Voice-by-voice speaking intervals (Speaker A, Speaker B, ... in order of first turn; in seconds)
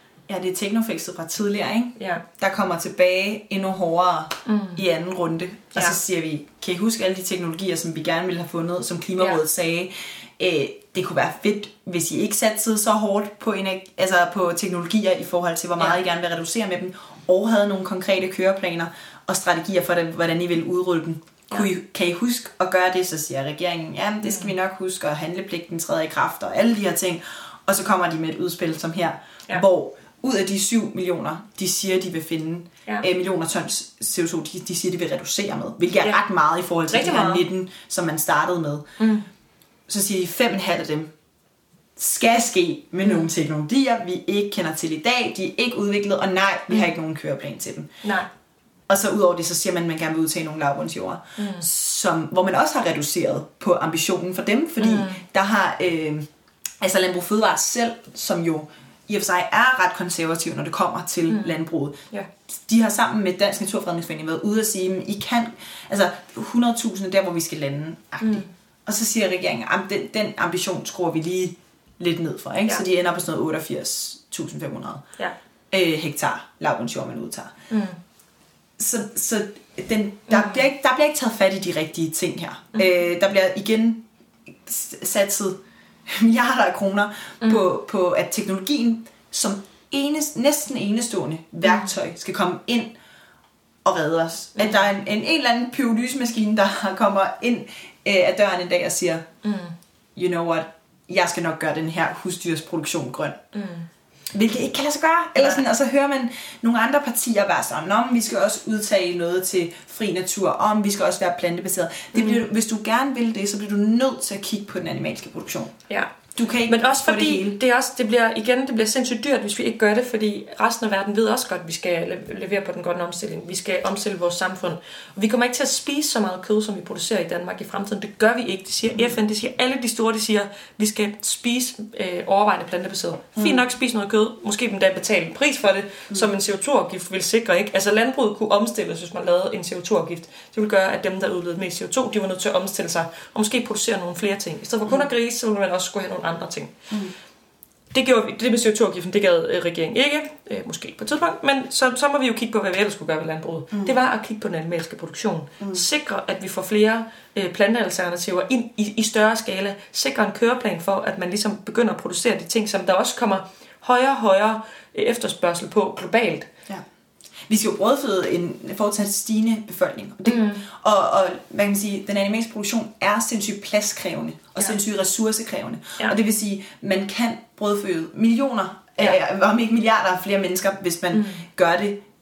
Speaker A: 0.3-38.9, 39.9-41.1, 42.0-47.9, 48.9-56.3, 56.8-62.0, 62.7-75.0, 75.7-77.5, 78.8-84.0, 84.7-92.9, 93.8-99.3, 100.2-103.4, 104.3-115.8, 116.3-117.6, 133.4-133.6, 155.6-155.9, 167.5-182.0
Speaker B: 2.0-2.2, 4.5-4.8, 24.2-24.5, 36.9-37.4, 39.0-39.3, 43.0-43.3, 48.0-48.3, 51.4-51.6, 54.8-55.2, 61.3-61.6, 68.2-68.5, 77.7-78.0, 80.3-80.6, 87.4-87.7, 91.6-91.9, 94.6-94.8, 99.4-99.7, 103.5-103.9, 105.4-105.6, 112.1-112.5, 116.7-146.8, 147.9-166.5, 170.2-170.6, 181.1-181.4